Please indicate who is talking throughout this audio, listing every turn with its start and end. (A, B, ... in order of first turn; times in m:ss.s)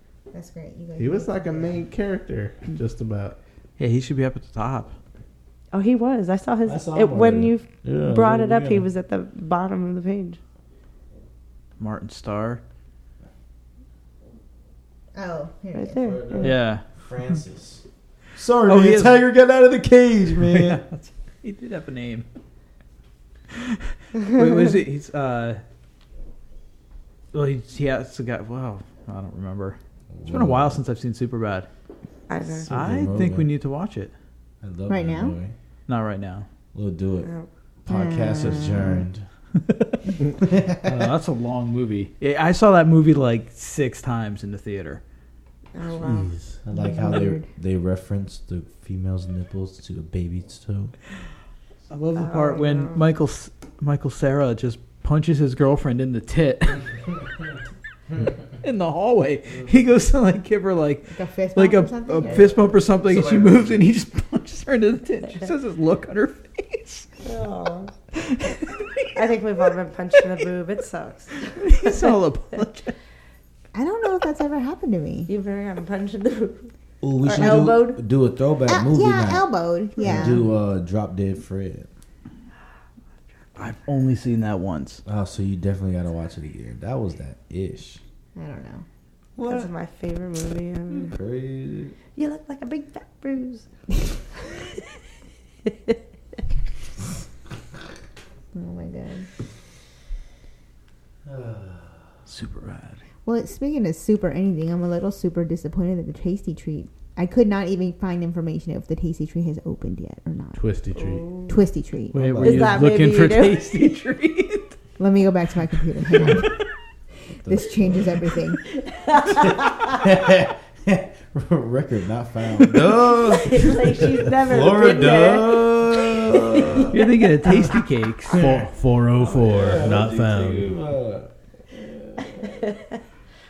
0:00.3-0:01.8 A
0:01.0-0:03.4 B
0:03.8-0:04.9 C
0:05.7-0:10.4 D
0:06.6-0:08.8 E
0:11.8-0:12.6 C
0:15.1-0:16.1 A
0:15.7-0:16.6 D
0:16.0-0:20.8 E
0:16.4-0:16.8 C
0:18.7-0:19.2 C
0:20.4-0:22.2 C
0:23.5-0:25.6 C
0:27.3-0:31.7 C
0:30.1-0:30.8 E
0:32.3-0:32.7 D
0:32.5-0:33.5 E
0:32.7-0:34.1 C
0:34.6-0:35.5 E
0:34.9-0:35.4 A
0:35.9-0:36.5 C
0:36.7-0:37.3 E
0:37.2-0:37.5 D
0:37.8-0:39.2 E
0:37.9-0:39.0 A
0:39.7-0:40.0 C
0:40.4-0:40.8 E
0:40.8-0:45.0 C
0:45.7-0:46.3 D
0:46.0-0:46.6 B
0:46.6-0:50.9 E
0:46.7-0:47.5 A
0:51.9-0:56.8 C
0:52.2-0:53.0 D
0:58.6-1:07.1 C
1:01.1-1:02.5 A
1:02.3-1:03.8 E
1:07.2-1:07.9 D
1:08.2-1:09.1 C
1:09.1-1:12.1 D
1:11.6-1:12.9 C
1:13.7-1:15.3 A
1:15.3-1:18.0 D
1:17.0-1:21.9 E
1:17.3-1:17.8 A
1:18.7-1:20.5 A
1:23.6-1:25.0 C
1:25.0-1:28.0 E
1:28.4-1:28.8 A
1:29.4-1:31.1 D
1:31.1-1:32.0 E
1:32.1-1:33.7 D
1:38.5-1:39.3 A
1:41.2-1:42.0 E
1:42.3-1:43.0 C
1:43.2-1:50.6 A
1:50.6-1:51.3 B
1:50.9-1:51.6 D
1:51.5-1:52.2 A
1:52.1-1:54.7 C
1:52.1-1:52.7 E
1:52.4-1:53.8 D
1:55.0-1:56.5 A
1:56.1-1:56.5 C
1:57.4-1:58.1 E
1:57.4-1:58.6 A
1:59.0-2:00.0 D
1:59.9-2:06.9 E
2:03.3-2:07.8 D
2:06.9-2:08.4 C
2:08.3-2:10.8 B
2:08.3-2:12.6 E